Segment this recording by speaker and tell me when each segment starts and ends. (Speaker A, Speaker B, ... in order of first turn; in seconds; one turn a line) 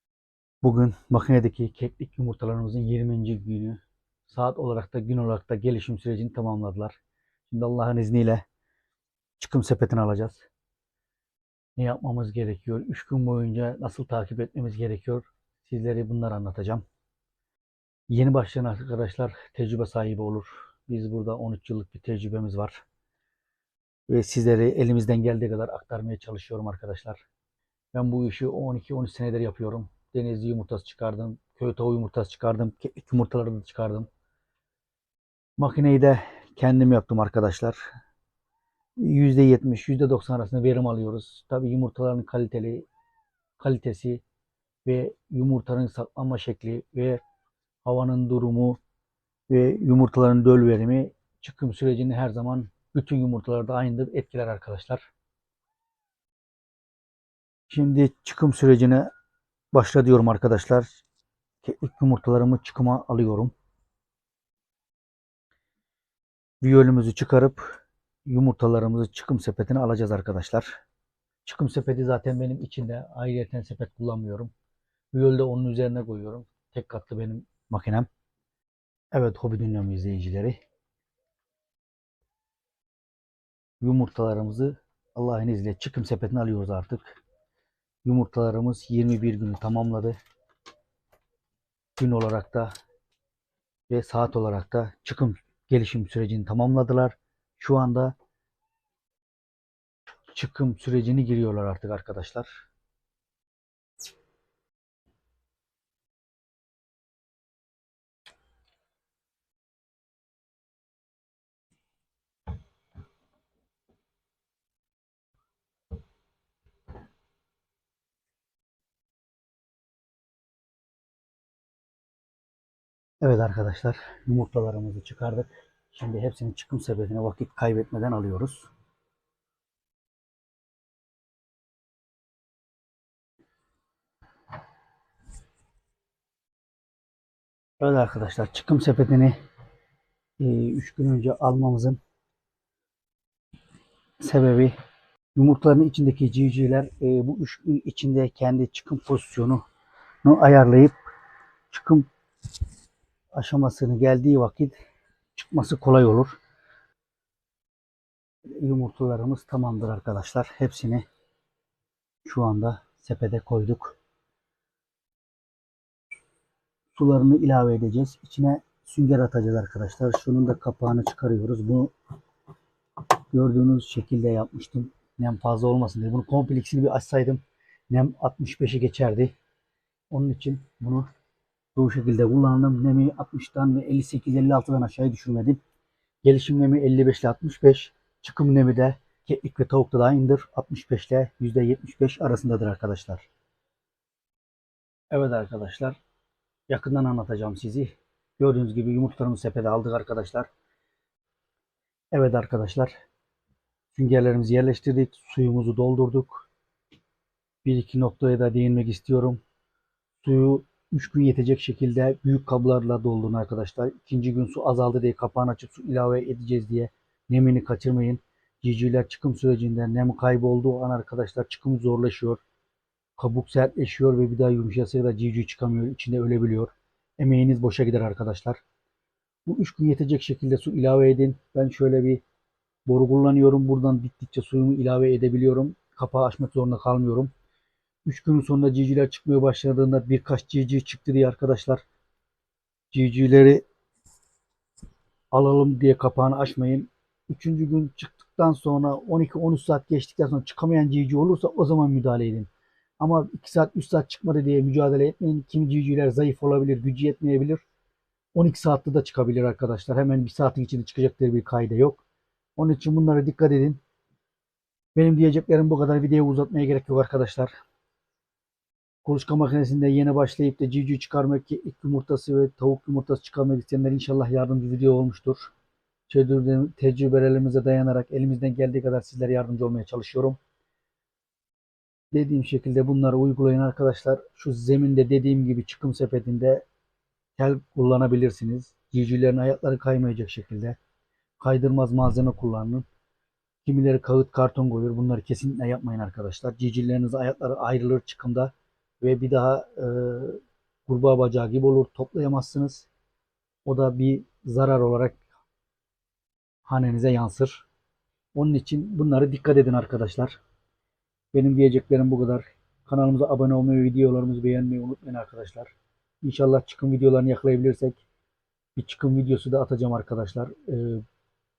Speaker A: 0.6-7.0
Speaker A: 7.5-8.4
Speaker A: 9.4-10.4
Speaker A: 11.8-16.8
Speaker A: 18.1-22.8
Speaker A: 24.1-27.2
Speaker A: 27.9-34.1
Speaker A: 35.6-37.8
Speaker A: 39.0-42.8
Speaker A: 43.6-44.2
Speaker A: 44.8-47.2
Speaker A: 47.8-48.8
Speaker A: 49.5-55.1
Speaker A: 57.7-59.1
Speaker A: 59.7-61.0
Speaker A: 61.6-63.5
Speaker A: 66.6-67.6
Speaker A: 68.2-70.7
Speaker A: 71.4-74.5
Speaker A: 75.1-78.1
Speaker A: 79.1-80.6
Speaker A: 83.8-87.2
Speaker A: 88.0-90.2
Speaker A: 92.0-92.7
Speaker A: 93.9-98.1
Speaker A: 100.3-102.5
Speaker A: 123.2-128.7
Speaker A: 137.8-139.3
Speaker A: 140.4-142.0
Speaker A: 144.2-144.7
Speaker A: 145.3-149.6
Speaker A: 150.2-150.9
Speaker A: 151.7-152.1
Speaker A: 153.3-154.8
Speaker A: 155.3-156.3
Speaker A: 158.6-161.0
Speaker A: 162.2-164.0
Speaker A: 166.9-171.9
Speaker A: 173.3-179.3
Speaker A: 180.1-181.1
Speaker A: 181.7-185.6
Speaker A: 186.2-193.3
Speaker A: 195.1-196.0
Speaker A: 196.7-200.5
Speaker A: 202.1-202.9
Speaker A: 203.9-206.5
Speaker A: 207.6-209.4
Speaker A: 210.2-222.4
Speaker A: 223.2-228.6
Speaker A: 229.4-232.2
Speaker A: 232.8-237.3
Speaker A: 238.1-241.8
Speaker A: 242.9-243.6
Speaker A: 245.3-252.5
Speaker A: 253.0-257.6
Speaker A: 258.3-262.0
Speaker A: 262.6-263.8
Speaker A: 264.9-267.5
Speaker A: 269.0-275.5
Speaker A: 276.1-280.4
Speaker A: 282.1-286.6
Speaker A: 287.4-290.8
Speaker A: 291.4-292.8
Speaker A: 293.6-302.9
Speaker A: 303.6-305.2
Speaker A: 306.6-307.6
Speaker A: 308.3-310.4
Speaker A: 311.3-315.7
Speaker A: 316.2-318.0
Speaker A: 318.8-321.0